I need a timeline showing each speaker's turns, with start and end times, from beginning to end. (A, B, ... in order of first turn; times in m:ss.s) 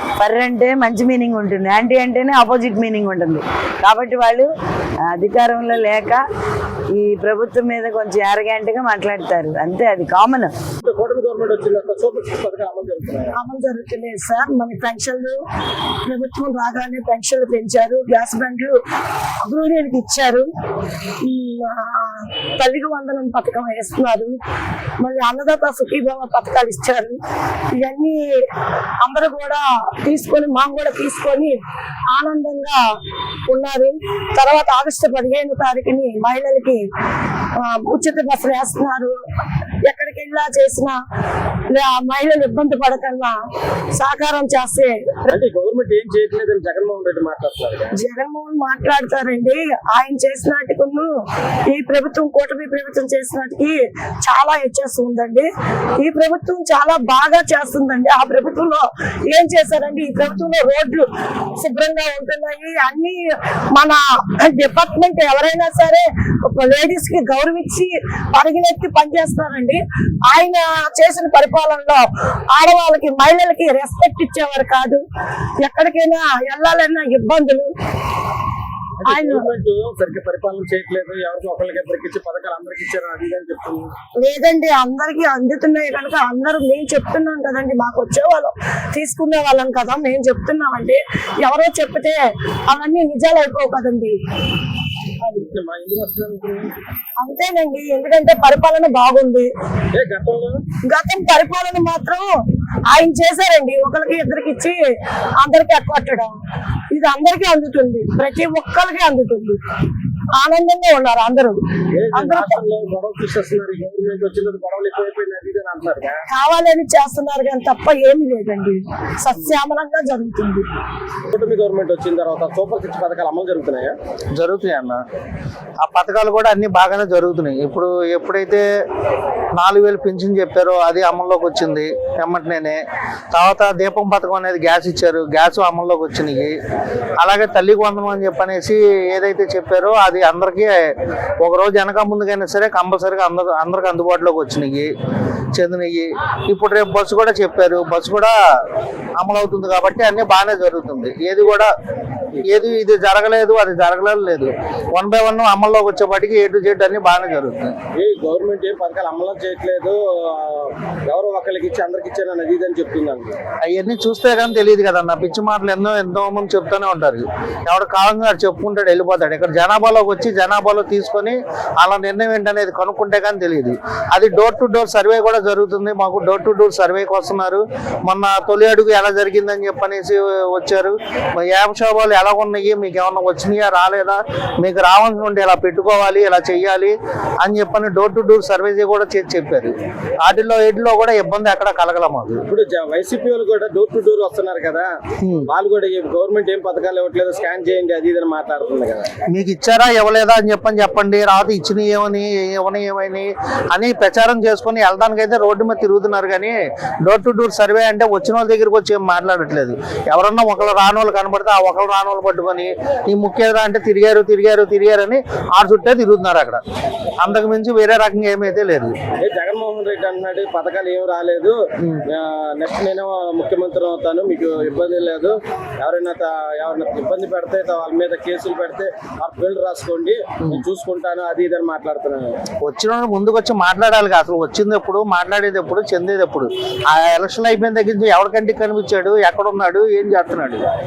0:00.2-0:04.5 A
0:05.1-0:06.2 A
0:06.9-0:10.5 A
0:10.8-0:13.4 B
0:13.4-0:15.4 C
0:16.0-0:18.8 C
0:19.4-0:20.5 C
0:21.2-0:24.4 C
0:25.0-0:28.5 C
0:29.0-0:31.6 C
0:32.1-0:32.8 C
0:33.5-0:36.9 C
0:37.6-0:39.2 C
0:39.8-0:41.0 C
0:41.7-0:43.4 C
0:43.9-0:45.3 C
0:45.3-0:47.9 B
0:47.9-1:15.0 C
1:15.6-1:17.8 C
1:19.0-1:23.9 B
1:19.1-1:19.5 C
1:24.2-1:34.2 C
1:35.3-1:36.7 B
1:37.2-1:39.5 C
1:39.9-1:40.6 B
1:40.8-1:46.4 C
1:46.9-1:49.6 C
1:50.3-1:51.6 C
1:51.9-1:56.2 B
1:52.1-1:52.6 C
1:56.3-2:00.7 C
2:01.3-2:04.0 B
2:04.4-2:05.0 D
2:05.8-2:08.6 D
2:09.6-2:12.8 D
2:13.3-2:16.6 D
2:17.2-2:24.9 D
2:25.6-2:28.3 D
2:29.2-2:31.7 D
2:32.5-2:37.7 D
2:38.0-2:43.4 B
2:43.6-3:09.7 D
3:10.2-3:12.4 D
3:12.5-3:14.9 B
3:15.5-3:19.1 B
3:19.3-3:36.6 D
3:37.2-3:38.9 D
3:39.2-3:52.3 B
3:52.6-4:00.6 D